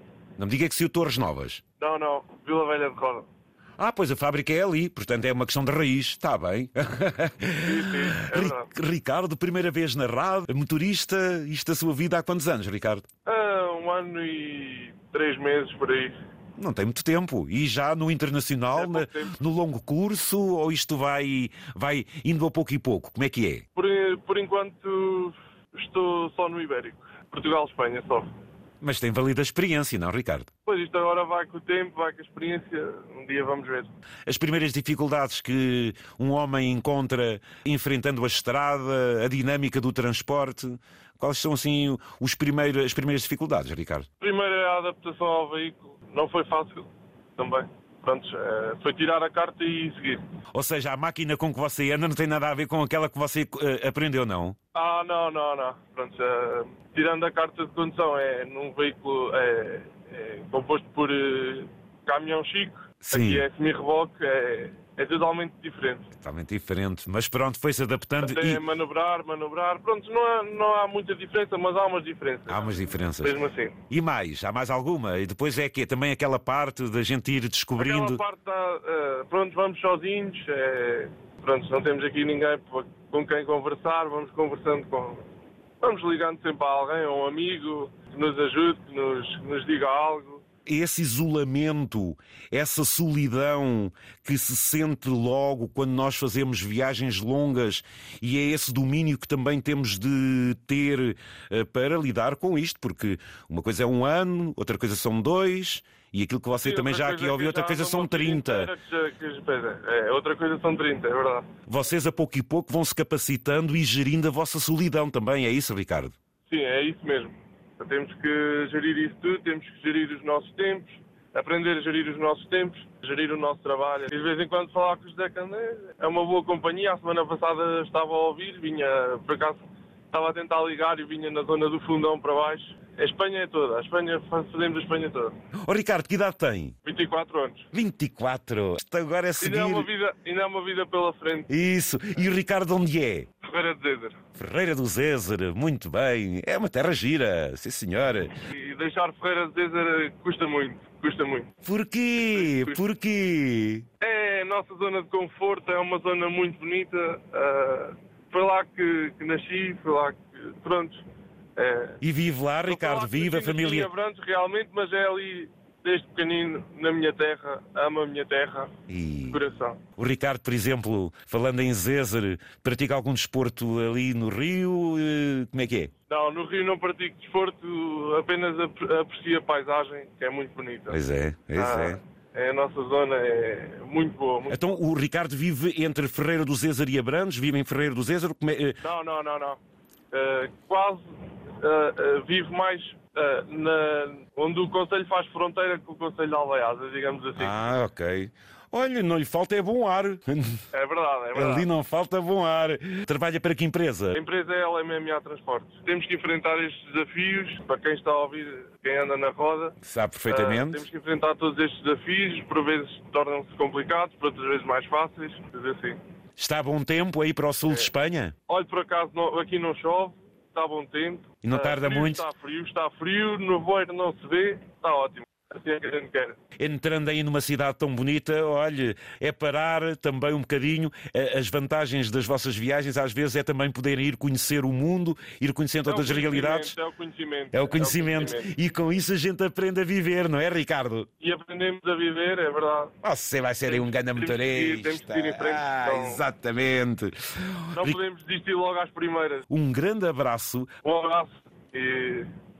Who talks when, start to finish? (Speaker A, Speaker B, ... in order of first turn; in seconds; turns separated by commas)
Speaker A: 0.4-1.6, Speaker B: 1.8-3.3, Speaker A: 3.8-13.1, Speaker B: 7.6-8.7, Speaker B: 13.2-16.2, Speaker A: 16.6-23.6, Speaker B: 18.8-19.4, Speaker B: 23.8-28.3, Speaker A: 28.8-30.5, Speaker B: 30.7-33.9, Speaker A: 34.3-44.1, Speaker B: 44.2-50.2, Speaker A: 50.5-54.6, Speaker B: 54.8-66.1, Speaker A: 63.0-63.5, Speaker A: 66.2-68.6, Speaker B: 68.2-73.8, Speaker A: 72.5-73.3, Speaker A: 73.9-78.2, Speaker B: 77.8-85.2, Speaker B: 85.8-90.4, Speaker A: 90.7-108.7, Speaker B: 106.6-111.5, Speaker A: 111.7-116.2, Speaker B: 116.5-135.3, Speaker A: 135.7-136.8, Speaker B: 136.8-137.7, Speaker A: 137.7-139.9, Speaker B: 139.4-141.5, Speaker A: 141.5-143.3, Speaker B: 143.4-144.2, Speaker A: 144.4-148.4, Speaker B: 148.5-151.5, Speaker A: 151.6-153.9, Speaker B: 152.3-152.8, Speaker B: 154.0-161.0, Speaker B: 161.6-162.0, Speaker A: 162.0-163.9, Speaker B: 162.7-168.7, Speaker A: 168.9-169.4, Speaker B: 169.3-169.8, Speaker A: 170.0-175.9, Speaker B: 176.1-181.0, Speaker A: 180.9-182.0, Speaker B: 181.6-184.6, Speaker A: 184.5-188.8, Speaker B: 188.8-189.6, Speaker B: 190.1-191.0, Speaker B: 191.6-197.6, Speaker A: 197.4-200.6, Speaker B: 200.7-201.7, Speaker A: 201.3-204.2, Speaker B: 204.1-209.8, Speaker A: 209.8-210.8, Speaker B: 210.3-216.0, Speaker A: 216.4-218.3, Speaker B: 218.5-226.4, Speaker A: 221.4-222.2, Speaker A: 226.6-236.7, Speaker B: 235.9-238.6, Speaker A: 237.5-241.1, Speaker B: 241.2-242.9, Speaker A: 243.0-248.0, Speaker B: 243.7-246.2, Speaker B: 247.8-249.5, Speaker A: 249.5-250.7, Speaker B: 250.8-252.3